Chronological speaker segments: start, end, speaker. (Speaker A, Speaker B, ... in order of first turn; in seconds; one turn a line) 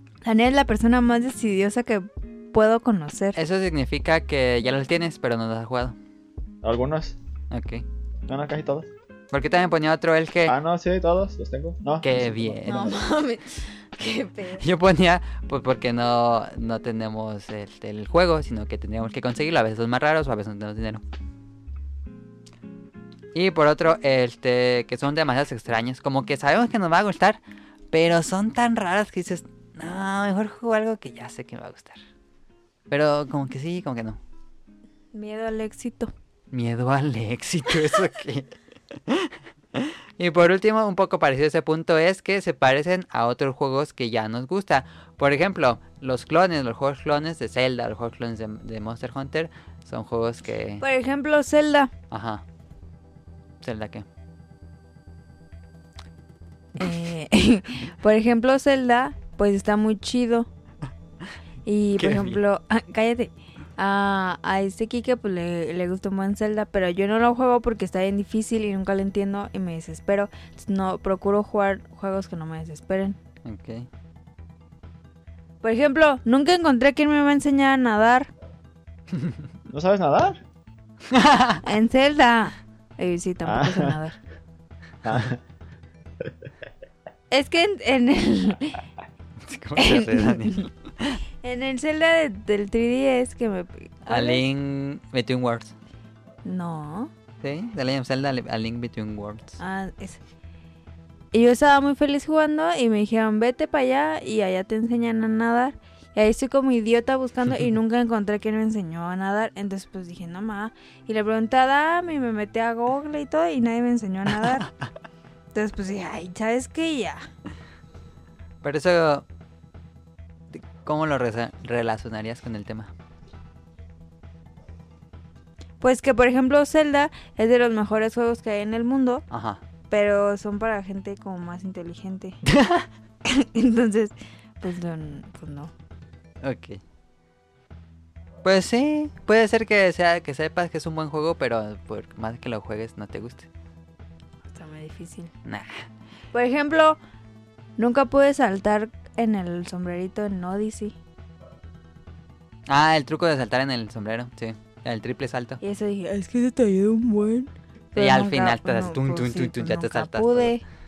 Speaker A: 0.2-3.4
Speaker B: 3.4-6.0
Speaker C: 6.6-7.2
Speaker B: 7.5-7.8
Speaker C: 8.3-8.9
Speaker B: 9.3-10.6
Speaker C: 10.5-13.0
Speaker B: 12.0-13.0
Speaker A: 12.7-14.7
Speaker B: 14.6-21.0
Speaker B: 23.3-27.4
Speaker B: 27.9-32.0
Speaker B: 32.9-34.2
Speaker A: 35.1-36.1
Speaker B: 36.5-38.5
Speaker B: 39.1-50.8
Speaker A: 50.8-51.9
Speaker B: 52.1-52.4
Speaker B: 53.6-54.1
Speaker A: 56.8-60.5
Speaker A: 61.7-73.2
Speaker B: 62.0-62.4
Speaker B: 73.5-73.9
Speaker A: 75.6-78.3
Speaker C: 79.7-80.4
Speaker B: 81.1-81.6
Speaker A: 81.6-84.2
Speaker C: 83.4-84.0
Speaker C: 85.0-85.4
Speaker A: 87.3-88.8
Speaker B: 89.5-91.2
Speaker A: 89.8-90.6
Speaker A: 91.4-94.4
Speaker B: 94.1-95.7
Speaker A: 96.5-97.1
Speaker B: 97.4-99.6
Speaker A: 99.6-100.2
Speaker A: 101.3-114.7
Speaker A: 115.5-117.3
Speaker B: 118.6-119.2
Speaker B: 120.5-122.9
Speaker A: 125.8-129.2
Speaker B: 129.3-129.6
Speaker A: 129.9-132.4
Speaker B: 132.5-132.9
Speaker A: 133.2-135.7
Speaker B: 136.4-136.8
Speaker B: 138.4-143.5
Speaker A: 144.5-145.3
Speaker B: 145.4-145.9
Speaker A: 146.3-147.0
Speaker A: 147.8-151.0
Speaker B: 152.7-155.6
Speaker A: 155.6-160.6
Speaker B: 158.0-160.5